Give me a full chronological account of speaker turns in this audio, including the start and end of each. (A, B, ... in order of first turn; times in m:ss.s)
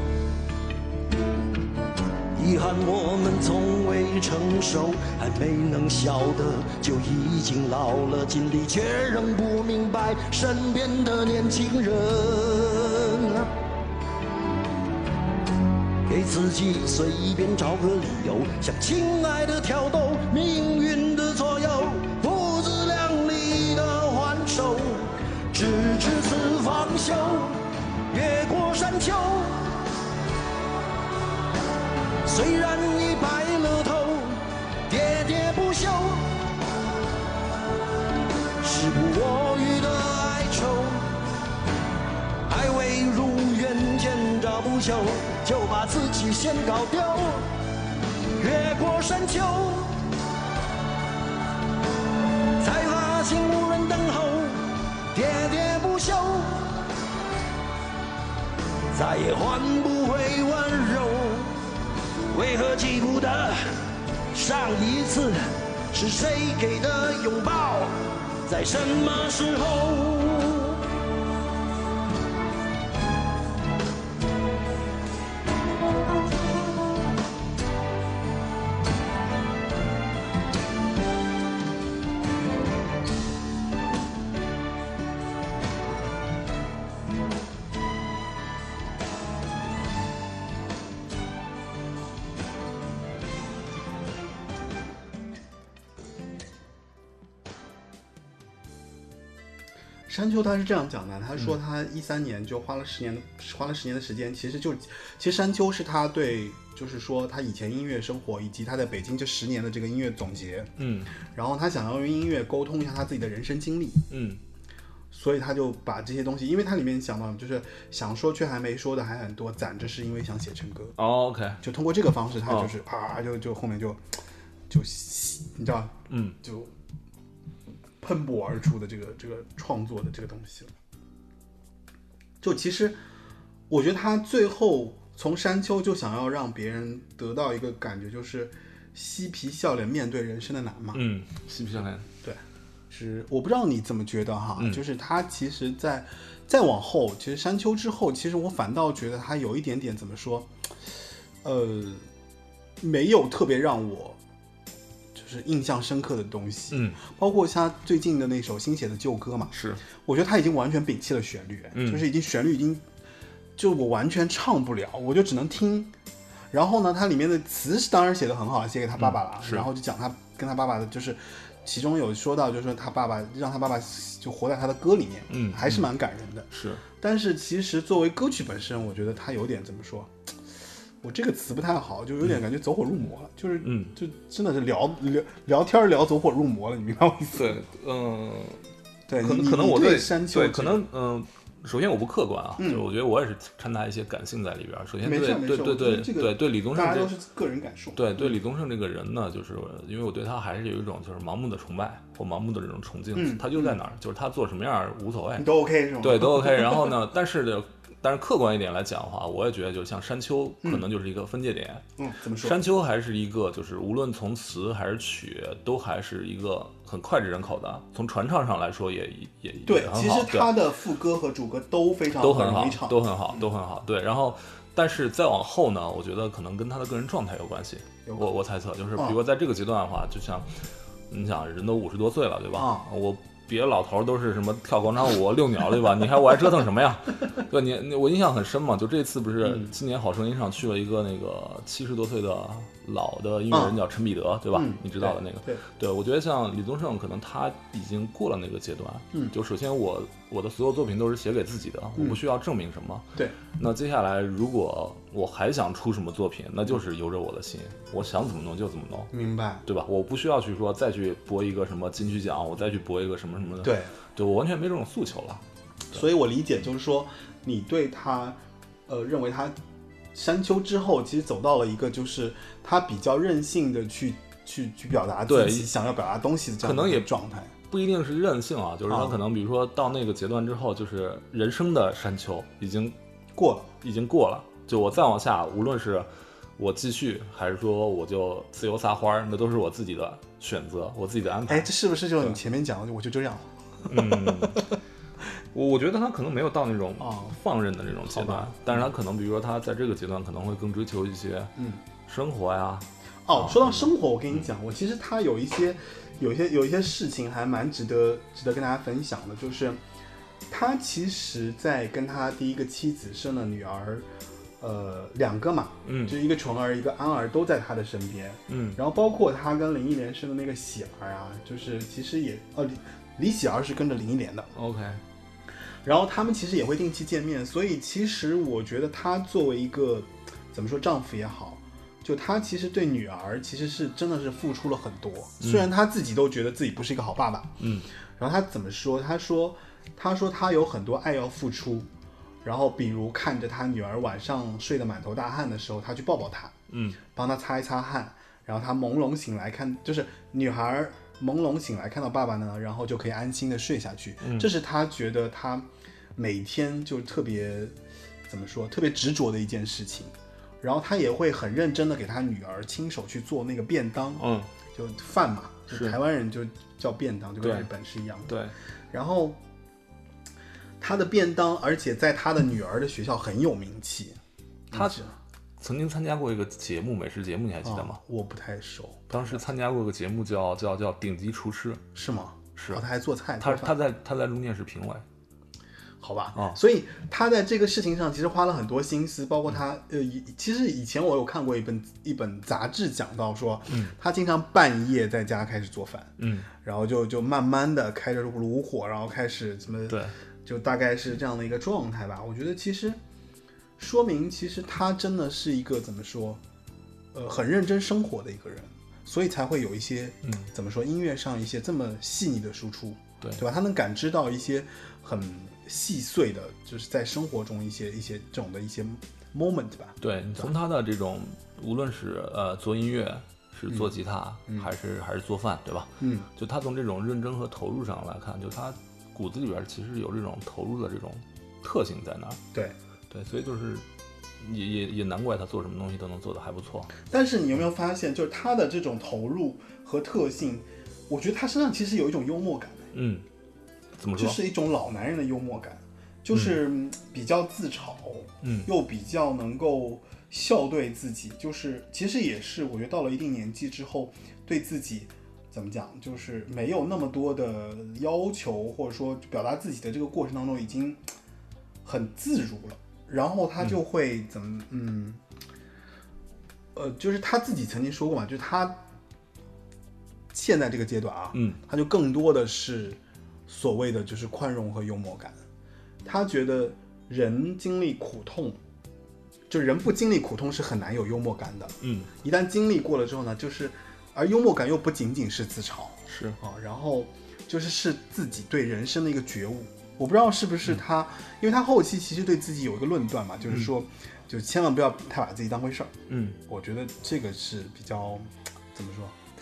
0:02.4-0:13.5 A
0:16.0-0:29.6 A
0:32.2-0:36.3 A
0:38.6-0:41.1 A
0:42.5-0:47.5 A
0:48.4-0:50.0 A
0:52.6-0:56.6 A
0:58.9-1:01.5 A
1:02.3-1:03.6 A
1:04.3-1:05.4 A
1:05.9-1:10.8 A
1:40.1-1:50.7 B
1:50.8-1:51.1 C
1:51.3-1:54.1 B
1:54.1-1:54.4 C
1:55.1-2:01.0 B
2:01.0-2:01.6 C
2:01.6-2:04.0 B
2:04.7-2:06.7 B
2:06.1-2:06.4 C
2:08.0-2:10.7 B
2:12.4-2:13.0 B
2:13.7-2:21.0 B
2:20.9-2:22.1 C
2:22.2-2:30.5 B
2:31.4-2:32.0 B
2:32.8-2:34.2 B
2:35.1-2:42.8 B
2:36.7-2:37.0 C
2:39.5-2:39.8 C
2:41.7-2:42.0 C
2:43.6-2:45.9 B
2:46.5-3:00.1 B
2:49.0-2:49.7 C
2:55.3-2:55.9 C
2:56.5-2:56.8 C
3:01.0-3:07.6 B
3:03.6-3:03.9 C
3:07.3-3:08.6 C
3:09.1-3:10.8 B
3:09.2-3:17.1 C
3:12.6-3:12.9 B
3:15.0-3:18.3 B
3:17.9-3:31.8 C
3:23.1-3:23.8 B
3:25.4-3:26.9 B
3:32.0-3:32.6 B
3:32.4-3:40.5 C
3:39.6-3:43.4 B
3:42.2-3:50.5 C
3:48.0-3:48.3 B
3:51.1-4:19.1 C
3:52.5-3:52.8 B
3:59.4-3:59.7 B
4:03.5-4:03.8 B
4:04.5-4:05.6 B
4:19.1-4:19.6 B
4:19.6-4:25.4 C
4:23.6-4:23.9 B
4:25.9-4:29.6 B
4:30.1-4:37.5 B
4:35.3-4:35.7 C
4:36.6-4:37.1 C
4:37.7-4:43.0 C
4:38.9-4:39.2 B
4:43.4-4:43.7 B
4:43.8-4:52.4 C
4:51.5-4:54.6 B
4:53.9-4:54.6 C
4:55.5-5:01.5 C
4:57.0-4:57.4 B
4:58.0-4:58.8 B
5:01.6-5:01.8 B
5:02.0-5:04.4 C
5:03.2-5:09.8 B
5:10.5-5:14.1 B
5:14.6-5:24.5 B
5:15.8-5:16.2 C
5:18.5-5:18.8 C
5:24.5-5:25.0 C
5:25.8-5:37.6 B
5:35.4-5:35.7 C
5:37.6-5:37.9 C
5:38.2-5:41.9 B
5:42.4-5:46.5 B
5:46.7-5:47.0 C
5:47.1-5:57.7 B
5:54.2-5:54.5 C
5:58.3-6:08.3 B
6:04.2-6:04.5 C
6:05.7-6:06.0 C
6:07.4-6:07.7 C
6:08.3-6:08.5 C
6:08.9-6:09.4 B
6:10.8-6:14.2 B
6:14.7-6:15.2 B
6:14.7-6:15.0 C
6:15.6-6:18.0 C
6:17.6-6:19.4 B
6:19.1-6:21.8 C
6:21.9-6:23.8 B
6:22.6-6:22.8 C
6:23.4-6:25.0 C
6:26.0-6:43.0 B
6:33.7-6:33.9 C
6:36.2-6:36.5 C
6:39.9-6:40.1 C
6:43.8-6:46.4 B
6:47.1-7:00.5 B
6:50.2-6:50.5 C
7:00.0-7:12.4 C
7:06.0-7:06.3 B
7:13.1-7:13.8 C
7:14.4-7:16.9 C
7:17.0-7:22.9 B
7:22.9-7:23.2 C
7:24.0-7:24.4 C
7:24.2-7:41.0 B
7:26.3-7:26.6 C
7:28.4-7:28.7 C
7:41.8-7:45.2 B
7:46.7-7:48.8 B
7:50.3-7:55.4 B
7:51.3-7:51.6 C
7:56.0-7:58.6 B
7:59.5-8:15.9 B
8:01.8-8:02.1 C
8:06.1-8:06.4 C
8:16.1-8:16.4 C
8:16.4-8:19.1 B